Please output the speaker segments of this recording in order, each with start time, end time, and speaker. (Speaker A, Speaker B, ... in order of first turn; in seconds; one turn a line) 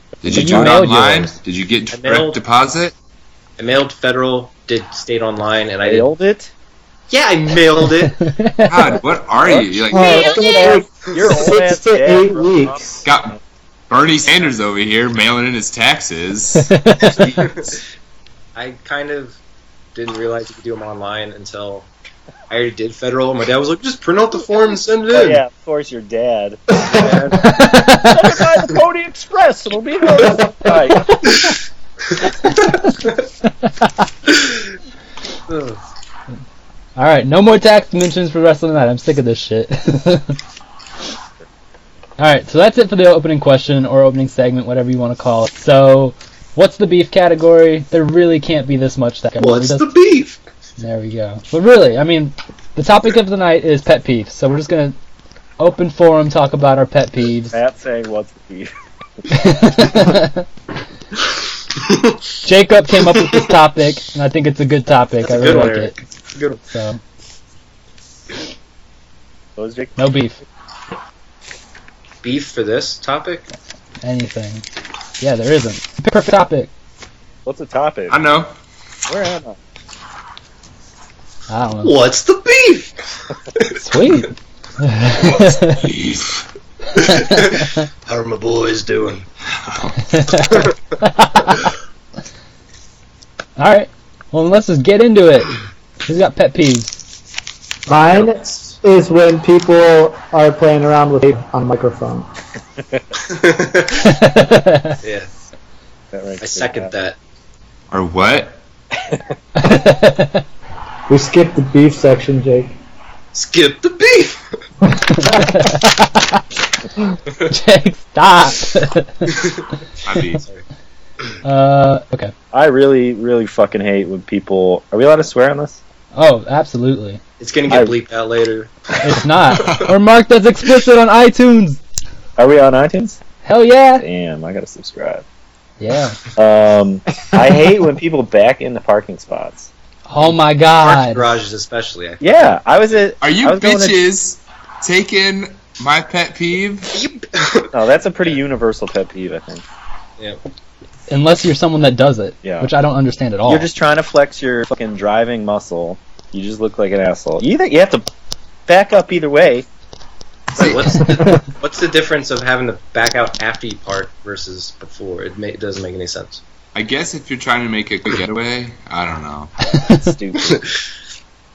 Speaker A: 0.2-3.0
Speaker B: 0.2-1.3
Speaker C: 0.3-1.3
Speaker D: 1.9-2.4
Speaker D: 3.6-6.1
Speaker B: 5.8-6.5
Speaker D: 7.1-8.2
Speaker C: 8.2-8.9
Speaker A: 8.7-10.6
Speaker B: 9.4-13.1
Speaker E: 9.9-13.0
Speaker D: 11.1-11.4
Speaker A: 13.0-13.4
Speaker A: 13.9-17.7
Speaker C: 16.5-17.5
Speaker D: 17.4-17.7
Speaker D: 18.6-19.4
Speaker D: 19.9-21.9
Speaker D: 22.5-25.4
Speaker B: 25.1-26.8
Speaker D: 26.8-27.5
Speaker C: 27.5-28.2
Speaker B: 28.0-31.3
Speaker D: 35.5-35.8
Speaker C: 37.0-40.4
Speaker C: 42.2-49.9
Speaker D: 49.4-50.4
Speaker C: 50.8-55.0
Speaker C: 55.6-57.6
Speaker B: 57.5-58.7
Speaker C: 59.3-60.5
Speaker C: 62.4-65.9
Speaker D: 65.2-66.6
Speaker C: 66.7-67.0
Speaker B: 69.6-70.0
Speaker C: 70.0-70.4
Speaker D: 72.2-73.5
Speaker C: 74.0-74.7
Speaker C: 75.2-76.7
Speaker B: 77.5-78.2
Speaker A: 78.1-78.5
Speaker B: 79.1-79.6
Speaker C: 81.5-82.0
Speaker D: 81.8-82.9
Speaker C: 83.8-85.8
Speaker A: 85.2-86.5
Speaker D: 87.0-89.2
Speaker C: 87.0-87.8
Speaker A: 89.5-90.2
Speaker C: 90.1-91.7
Speaker C: 93.6-96.9
Speaker E: 97.9-102.3
Speaker D: 103.3-104.1
Speaker C: 104.0-105.0
Speaker D: 105.0-105.3
Speaker B: 106.1-106.9
Speaker D: 106.4-107.2
Speaker A: 107.9-108.6
Speaker C: 109.6-110.5
Speaker E: 111.1-112.8
Speaker D: 113.3-114.4
Speaker C: 115.1-116.5
Speaker C: 117.5-119.4
Speaker A: 120.0-120.4
Speaker C: 121.4-122.3
Speaker B: 122.5-125.8
Speaker C: 126.1-127.2
Speaker D: 127.4-128.8
Speaker B: 127.7-128.0
Speaker C: 129.0-131.8
Speaker B: 132.4-133.2
Speaker C: 133.4-134.1
Speaker B: 134.0-135.2
Speaker C: 135.8-136.2
Speaker B: 136.4-139.7
Speaker C: 140.1-141.4
Speaker D: 140.8-143.1
Speaker B: 142.2-144.1
Speaker A: 143.2-146.9
Speaker D: 146.9-148.4
Speaker B: 147.7-149.6
Speaker C: 151.1-153.7
Speaker B: 152.4-152.7
Speaker B: 153.4-158.1
Speaker B: 158.7-159.7
Speaker D: 160.6-166.4
Speaker A: 166.8-169.5
Speaker C: 169.7-170.1
Speaker B: 170.0-170.7